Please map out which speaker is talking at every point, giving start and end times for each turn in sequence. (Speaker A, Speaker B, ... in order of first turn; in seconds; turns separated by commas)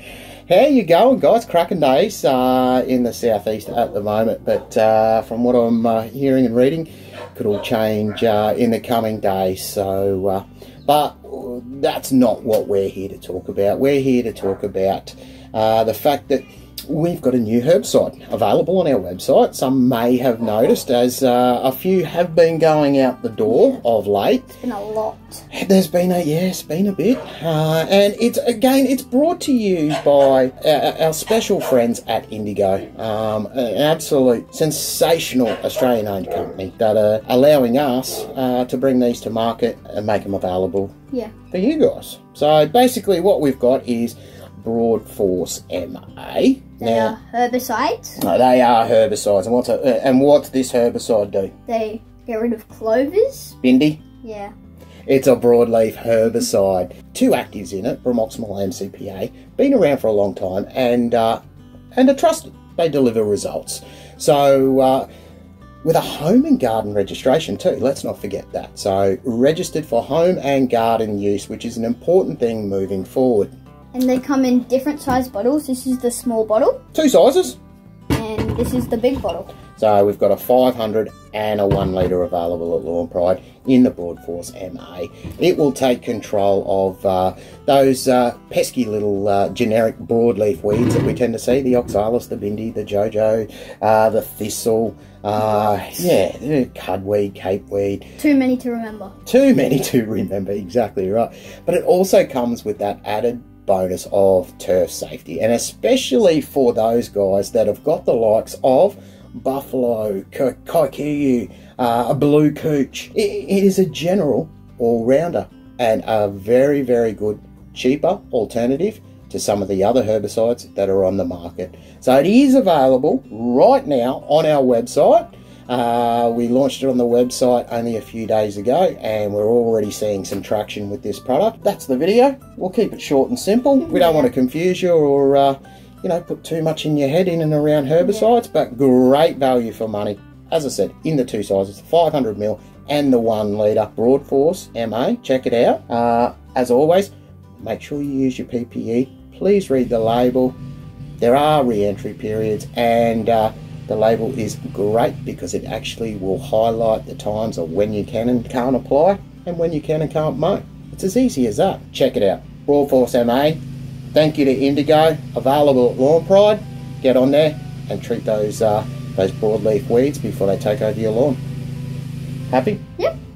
Speaker A: 0.5-24.5, Speaker B: 23.5-23.8, Speaker B: 24.6-25.4, Speaker A: 25.5-40.9, Speaker A: 41.5-47.1, Speaker B: 46.8-48.2, Speaker A: 48.2-51.5, Speaker B: 51.7-53.5, Speaker A: 53.6-54.0, Speaker B: 54.2-54.5, Speaker A: 55.1-61.4, Speaker A: 61.9-65.1, Speaker A: 65.8-73.5, Speaker B: 73.9-76.8, Speaker A: 76.9-77.6, Speaker B: 78.1-79.5, Speaker A: 79.8-98.1, Speaker B: 95.6-96.1, Speaker B: 98.2-99.1, Speaker A: 99.2-150.6, Speaker B: 138.0-138.3, Speaker A: 151.2-163.6, Speaker A: 164.1-171.4, Speaker A: 172.5-172.8